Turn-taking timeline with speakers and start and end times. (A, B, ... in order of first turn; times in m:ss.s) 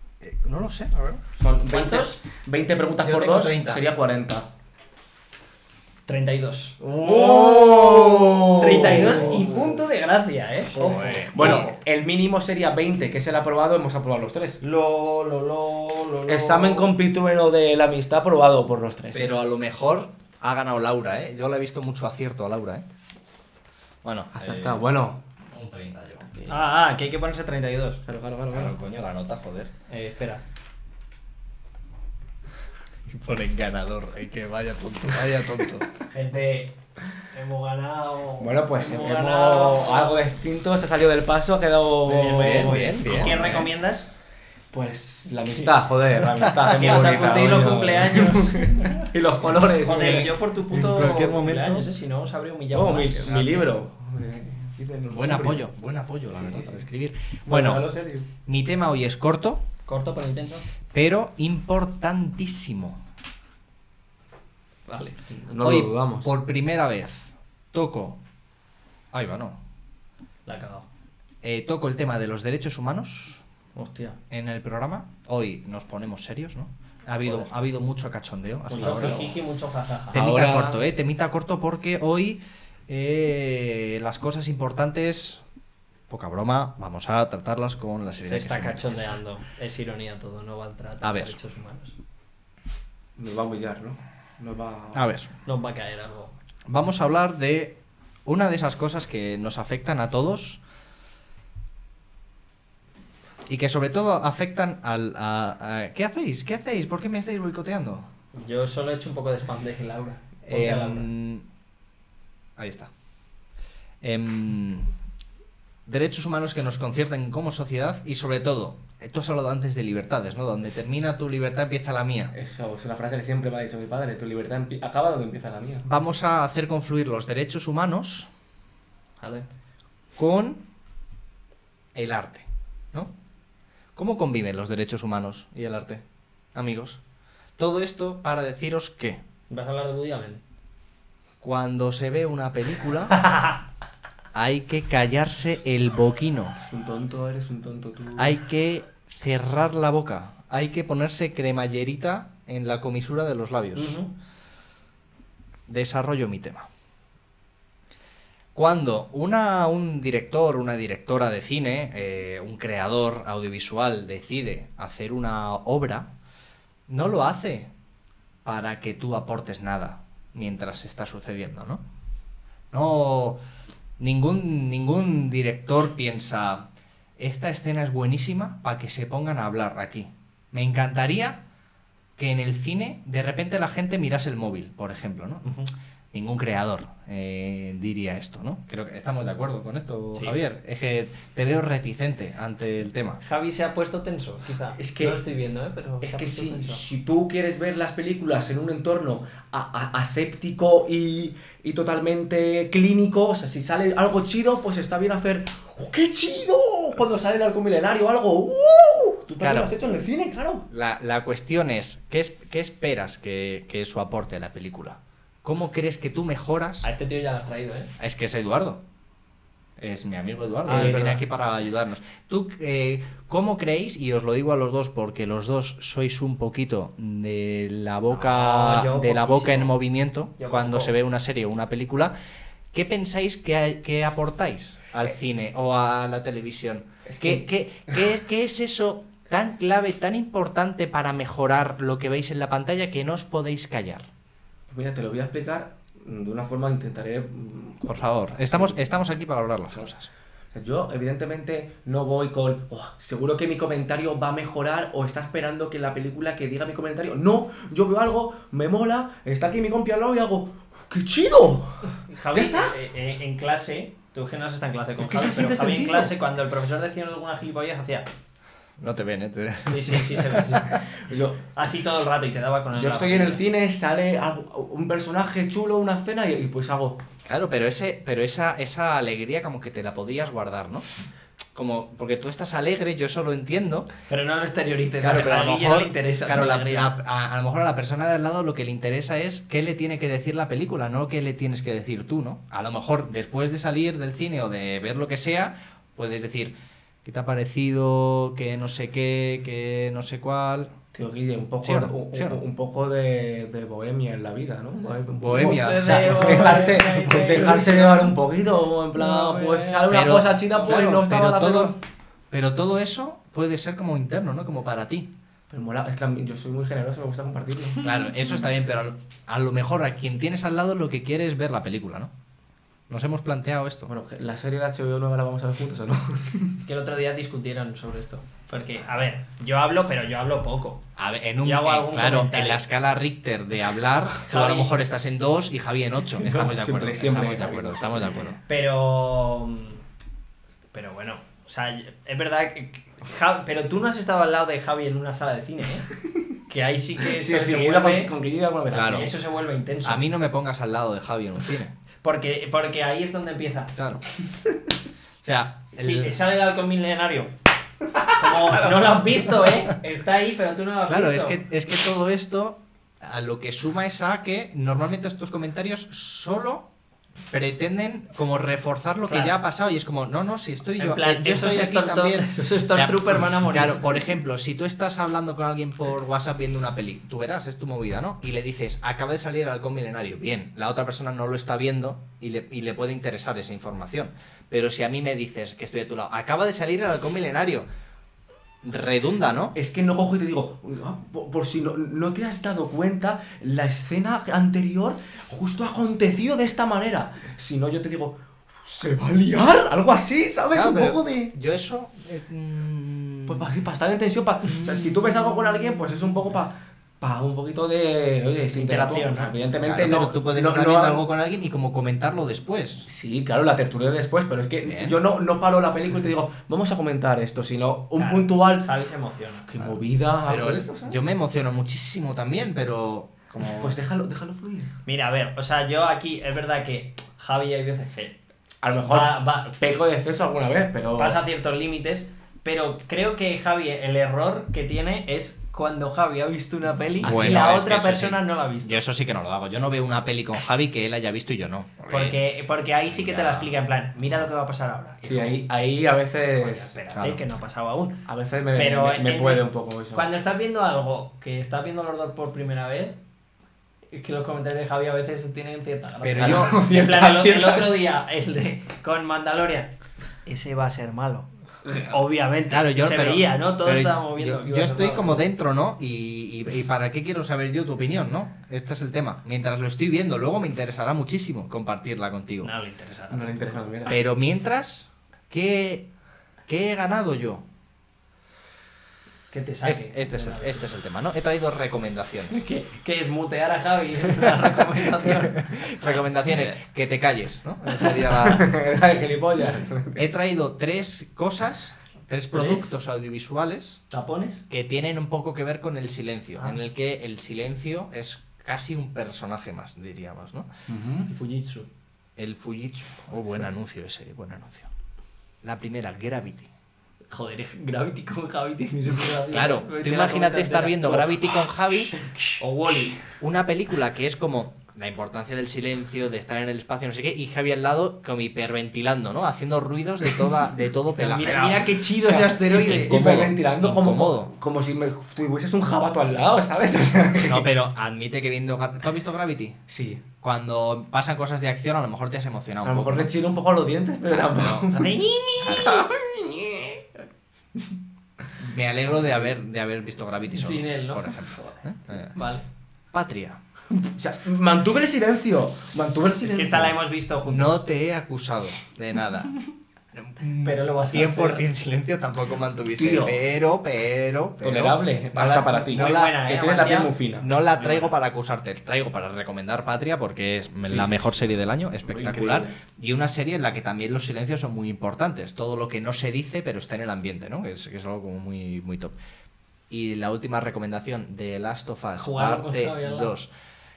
0:00.2-0:01.2 A
0:01.4-0:04.5 B
0:01.7-0:02.2 C
0:03.0-0:03.8 A
0:06.1-0:06.8 C
0:06.8-0:09.6 A
0:07.0-0:09.6 B
0:08.6-0:11.8 C
0:10.7-0:11.7 A
0:11.3-0:14.6 B
0:14.6-0:16.9 C
0:16.3-0:19.3 B
0:19.1-0:22.8 A
0:24.0-0:24.8 A
0:24.3-0:25.2 B
0:25.5-0:26.3 A
0:26.3-0:26.6 B
0:26.5-0:28.0 C
0:28.0-0:28.8 B
0:28.5-0:29.7 A
0:29.9-0:30.4 C
0:33.1-0:35.9 A
0:36.1-0:36.8 C
0:37.3-0:40.2 C
0:38.4-0:43.6 B
0:42.0-0:44.1 C
0:42.4-0:43.7 A
0:44.7-0:50.4 B
0:46.4-0:46.8 A
0:46.6-0:49.0 C
0:49.8-0:53.7 C
0:50.7-0:51.9 A
0:52.7-0:55.6 B
0:55.1-0:57.8 A
0:56.3-0:56.8 B
0:57.5-0:58.3 B
0:58.5-0:59.6 A
0:59.9-1:00.7 C
1:00.9-1:03.0 A
1:04.9-1:05.2 C
1:05.3-1:06.3 B
1:05.6-1:08.2 A
1:09.1-1:09.6 A
1:10.5-1:10.9 C
1:11.4-1:13.4 A
1:13.8-1:14.2 C
1:14.3-1:19.2 A
1:18.7-1:20.2 C
1:18.7-1:19.4 B
1:20.1-1:20.9 B
1:20.1-1:25.4 A
1:26.1-1:29.2 A
1:28.2-1:32.0 C
1:31.0-1:31.4 A
1:33.2-1:35.0 B
1:34.9-1:35.3 A
1:35.5-1:36.4 C
1:36.7-1:40.6 A
1:43.5-1:48.1 A
1:48.3-1:51.1 C
1:50.5-1:51.4 A
1:52.6-1:52.9 A
1:54.0-1:54.9 A
1:55.9-2:02.3 A
2:02.4-2:05.9 B
2:05.8-2:08.3 A
2:09.2-2:09.5 C
2:10.2-2:10.6 A
2:11.9-2:13.1 A
2:14.0-2:16.0 A
2:16.5-2:17.0 A
2:17.6-2:19.2 A
2:19.5-2:20.4 C
2:21.4-2:23.2 A
2:23.2-2:23.6 C
2:24.3-2:26.6 A
2:26.6-2:28.4 B
2:28.2-2:34.0 A
2:33.8-2:34.1 C
2:35.7-2:36.7 A
2:38.6-2:46.1 A
2:46.9-2:47.7 A
2:48.4-2:51.8 A
2:52.7-2:53.4 A
2:54.0-2:56.7 A
2:57.2-3:01.4 A
3:02.2-3:05.4 A
3:05.4-3:05.7 C
3:06.1-3:13.2 A
3:13.2-3:16.8 C
3:14.8-3:15.2 B
3:16.0-3:30.7 B
3:29.4-3:29.7 A
3:30.7-3:36.9 A
3:36.8-3:37.9 C
3:38.0-3:38.8 A
3:39.8-3:52.1 A
3:40.7-3:41.2 C
3:40.7-3:41.1 B
3:48.2-3:49.8 C
3:50.4-3:50.9 C
3:52.7-4:04.1 A
3:57.0-3:58.0 B
4:04.7-4:08.8 B
4:07.8-4:10.1 A
4:10.5-4:22.7 B
4:22.1-4:28.1 C
4:25.0-4:26.2 B
4:28.8-4:30.7 A
4:29.7-4:30.8 C
4:30.9-4:31.4 B
4:31.5-4:33.4 C
4:32.7-4:37.0 B
4:37.3-4:40.9 A
4:41.6-4:43.9 A
4:44.1-4:46.9 C
4:45.0-5:00.7 A
5:00.9-5:11.8 B
5:01.6-5:02.4 A
5:05.2-5:06.8 A
5:05.3-5:08.1 C
5:09.0-5:11.8 A
5:12.3-5:15.1 A
5:15.5-5:17.9 B
5:17.8-5:22.1 A
5:22.9-5:23.9 A
5:23.9-5:26.6 B
5:26.6-5:30.8 C
5:31.0-5:38.4 A
5:31.4-5:32.6 C
5:34.3-5:34.8 C
5:36.2-5:38.3 B
5:38.5-5:39.8 C
5:40.7-5:45.9 C
5:46.5-5:48.1 C
5:47.0-5:49.1 B
5:48.7-5:49.1 A
5:48.8-5:50.0 C
5:49.8-5:51.7 A
5:52.0-5:53.7 C
5:53.8-5:54.0 A
5:55.2-5:56.2 A
5:55.8-5:57.3 C
5:58.1-5:59.0 B
5:58.1-6:01.4 C
6:00.9-6:06.7 A
6:07.3-6:27.7 A
6:09.1-6:09.4 C
6:10.8-6:13.9 C
6:28.6-6:29.6 A
6:29.6-6:41.3 B
6:40.5-6:43.5 A
6:43.3-6:51.1 B
6:44.6-6:45.0 A
6:48.5-6:49.3 C
6:49.6-6:52.8 A
6:52.9-6:58.7 B
6:54.7-6:55.0 A
6:58.0-6:59.5 C
6:59.5-7:01.0 B
7:00.3-7:03.8 A
7:03.4-7:04.7 B
7:04.9-7:08.2 C
7:08.6-7:11.2 B
7:08.8-7:09.6 C
7:11.0-7:18.8 C
7:17.0-7:22.2 A
7:21.9-7:25.4 C
7:22.9-7:23.6 A
7:25.0-7:26.7 B
7:26.4-7:28.0 C
7:26.9-7:27.2 A
7:28.1-7:30.1 B
7:28.6-7:33.0 C
7:33.9-7:39.7 C
7:36.0-7:36.6 A
7:36.2-7:37.8 B
7:40.2-7:45.3 C
7:42.5-7:52.5 A
7:52.4-7:53.6 C
7:53.1-7:54.0 B
7:53.9-7:55.9 A
7:56.5-7:57.4 A
7:59.3-8:00.7 C
7:59.6-8:02.4 A
8:02.3-8:06.4 C
8:05.5-8:08.5 A
8:07.9-8:10.1 B
8:10.0-8:13.8 A
8:12.3-8:12.7 C
8:13.9-8:14.4 C
8:14.5-8:20.5 A
8:20.7-8:21.1 B
8:21.1-8:21.7 C
8:22.2-8:24.7 A
8:25.4-8:26.5 A
8:27.1-8:31.4 C
8:29.3-8:31.9 A
8:32.4-8:33.0 C
8:33.2-8:41.7 A
8:41.0-8:43.1 C
8:42.0-8:47.5 B
8:42.4-8:44.3 A
8:47.2-8:49.6 A
8:49.7-8:50.0 B
8:50.2-8:53.1 A
8:52.6-8:56.8 B
8:54.3-8:54.8 A
8:54.7-8:55.8 C
8:55.4-8:55.9 A
8:58.4-9:02.1 A
9:00.3-9:01.6 C
9:02.1-9:02.4 C
9:02.9-9:03.4 A
9:04.0-9:06.8 B
9:06.2-9:07.6 C
9:07.3-9:09.3 A
9:09.9-9:16.2 A
9:10.4-9:11.4 C
9:12.8-9:13.2 B
9:14.4-9:17.3 B
9:15.7-9:17.9 C
9:17.2-9:29.0 A
9:20.7-9:21.2 B
9:21.8-9:22.6 B
9:29.7-9:33.3 A
9:32.0-9:33.1 C